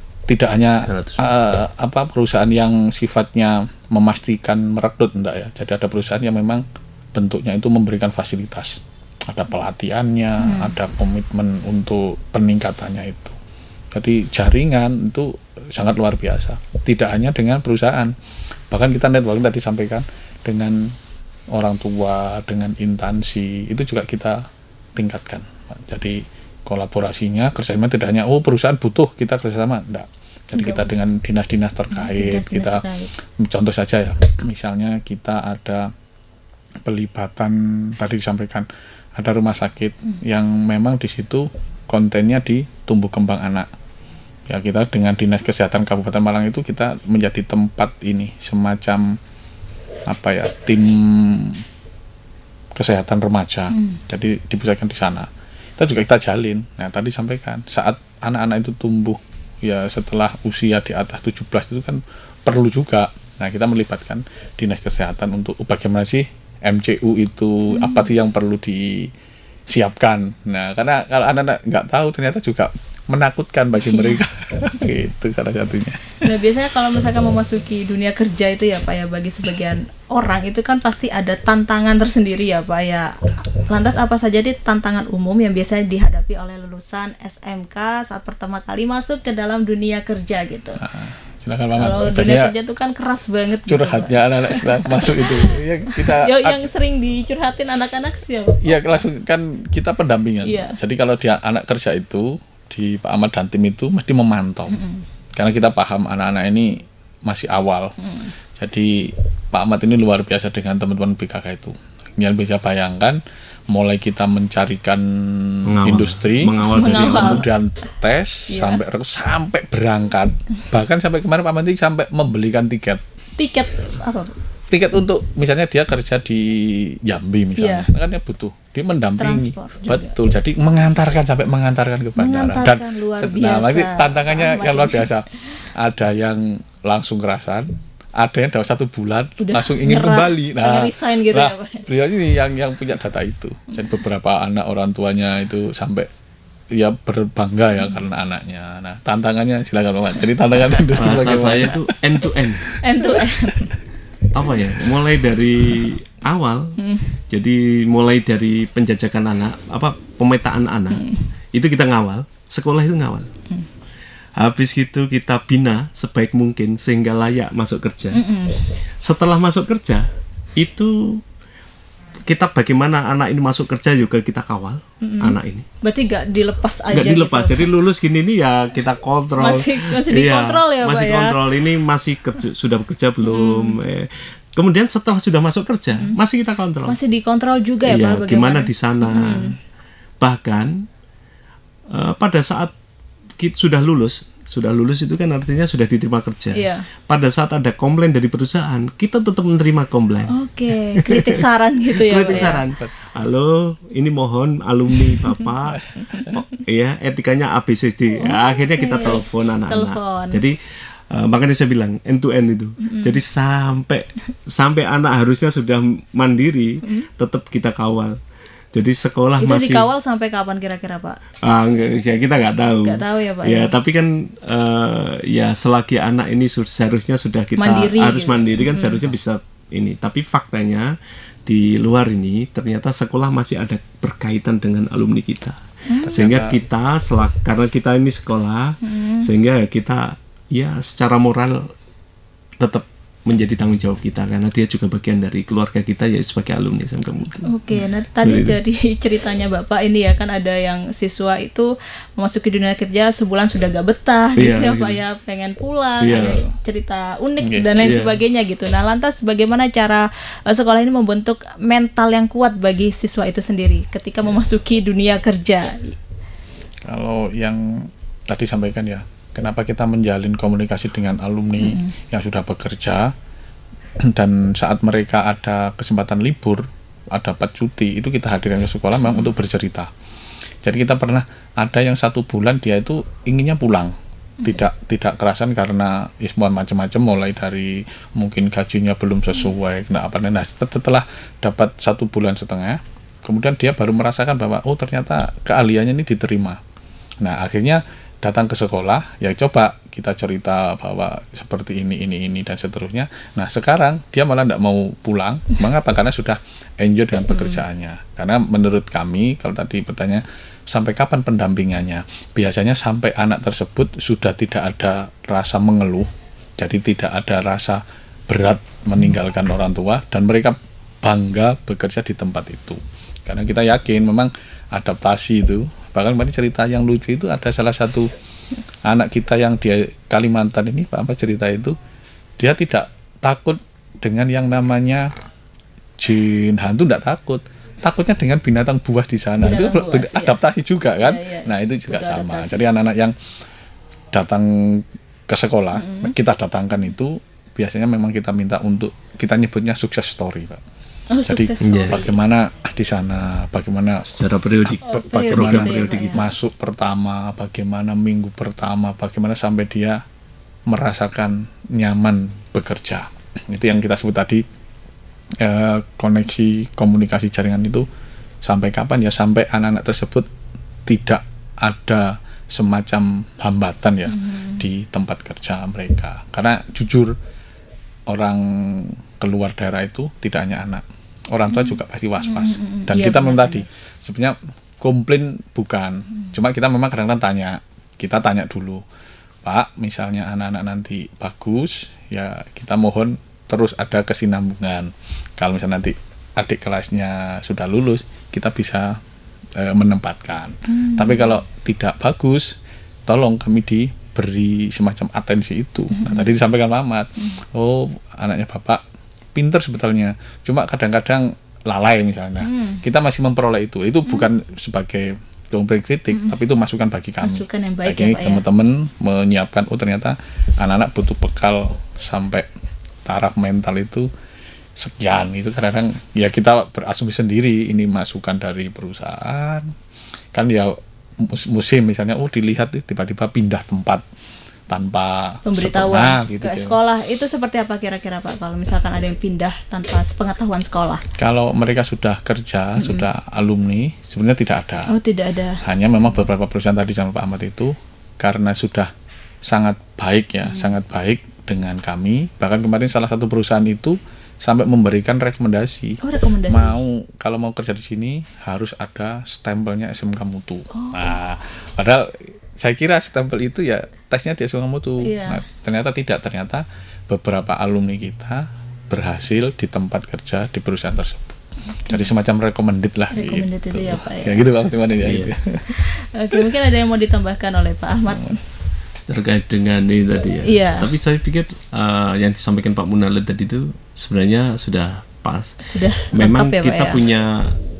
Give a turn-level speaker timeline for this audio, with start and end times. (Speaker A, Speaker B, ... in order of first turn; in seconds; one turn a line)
Speaker A: 0.3-13.4
Speaker B: 0.8-1.3
Speaker C: 10.4-10.7
Speaker A: 13.9-18.1
Speaker A: 18.7-20.9
Speaker A: 21.5-32.8
Speaker C: 30.5-30.9
Speaker C: 31.9-33.1
Speaker A: 33.4-35.9
Speaker A: 36.8-43.7
Speaker A: 44.5-49.2
Speaker A: 50.1-51.6
Speaker A: 52.8-69.1
Speaker C: 67.7-68.1
Speaker A: 69.7-76.3
Speaker C: 73.8-74.2
Speaker C: 76.2-90.8
Speaker A: 90.8-92.5
Speaker C: 91.7-99.0
Speaker A: 93.7-96.6
Speaker A: 98.6-104.8
Speaker C: 100.4-100.8
Speaker C: 104.7-105.0
Speaker A: 105.3-107.9
Speaker C: 108.0-108.3
Speaker A: 108.5-113.2
Speaker A: 113.7-123.0
Speaker B: 115.7-117.5
Speaker C: 116.7-117.5
Speaker C: 118.5-118.8
Speaker C: 123.4-124.3
Speaker A: 124.7-146.1
Speaker C: 127.6-127.9
Speaker C: 129.2-130.1
Speaker C: 132.2-135.1
Speaker C: 139.4-141.8
Speaker A: 146.7-153.5
Speaker B: 150.9-152.7
Speaker C: 152.8-153.7
Speaker B: 154.3-156.8
Speaker C: 156.8-157.1
Speaker B: 157.3-163.3
Speaker C: 160.9-161.2
Speaker B: 164.4-168.2
Speaker C: 168.1-168.7
Speaker B: 169.0-171.2
Speaker B: 172.3-175.7
Speaker C: 175.0-177.7
Speaker B: 176.9-186.9
Speaker C: 179.4-181.4
Speaker C: 183.2-183.8
Speaker C: 186.8-189.6
Speaker B: 187.8-189.6
Speaker B: 190.2-190.8
Speaker B: 191.9-192.7
Speaker B: 193.4-200.4
Speaker C: 196.5-196.8
Speaker C: 200.3-202.6
Speaker B: 200.9-210.6
Speaker A: 205.9-206.2
Speaker C: 208.2-210.4
Speaker B: 211.1-218.2
Speaker C: 212.8-213.2
Speaker B: 218.7-219.9
Speaker C: 219.4-221.2
Speaker B: 221.4-230.9
Speaker C: 222.8-223.7
Speaker C: 227.6-229.1
Speaker B: 231.4-241.7
Speaker C: 235.9-236.3
Speaker A: 236.0-236.6
Speaker C: 238.8-239.3
Speaker B: 242.6-247.5
Speaker C: 247.4-266.0
Speaker B: 248.2-248.6
Speaker B: 254.3-255.0
Speaker B: 256.0-256.4
Speaker A: 256.1-256.4
Speaker A: 257.4-257.9
Speaker B: 257.8-258.1
Speaker A: 266.8-273.1
Speaker C: 271.6-271.9
Speaker A: 274.1-279.9
Speaker A: 280.6-296.6
Speaker A: 297.2-328.1
Speaker A: 328.8-331.8
Speaker A: 332.4-335.1
Speaker A: 336.0-343.1
Speaker C: 339.4-340.3
Speaker C: 341.0-342.6
Speaker A: 344.1-350.6
Speaker C: 345.7-346.1
Speaker C: 351.1-352.1
Speaker A: 351.3-354.1
Speaker B: 351.6-352.0
Speaker B: 354.1-356.2
Speaker C: 354.8-356.2
Speaker A: 354.9-360.0
Speaker A: 360.7-364.4
Speaker A: 365.4-367.9
Speaker A: 368.4-370.3
Speaker A: 370.9-377.1
Speaker C: 374.1-374.6
Speaker A: 378.1-388.8
Speaker C: 382.3-383.6
Speaker A: 389.4-399.0
Speaker A: 399.6-408.8
Speaker C: 400.7-401.4
Speaker C: 405.9-406.2
Speaker A: 409.3-422.5
Speaker C: 412.4-412.8
Speaker C: 417.2-418.4
Speaker A: 423.0-424.1
Speaker A: 424.8-429.7
Speaker A: 430.3-434.0
Speaker A: 434.7-436.8
Speaker C: 435.4-441.0
Speaker A: 441.2-444.9
Speaker C: 442.8-443.0
Speaker C: 444.9-445.6
Speaker A: 445.6-448.9
Speaker A: 449.4-471.4
Speaker C: 450.5-450.7
Speaker C: 456.0-456.8
Speaker C: 460.7-461.1
Speaker C: 465.0-465.4
Speaker C: 471.8-472.1
Speaker A: 471.9-475.8
Speaker C: 473.1-474.5
Speaker B: 475.0-475.3
Speaker C: 475.7-478.4
Speaker A: 478.1-478.4
Speaker B: 479.1-485.6
Speaker C: 480.4-480.9
Speaker C: 485.6-487.0
Speaker B: 486.1-487.6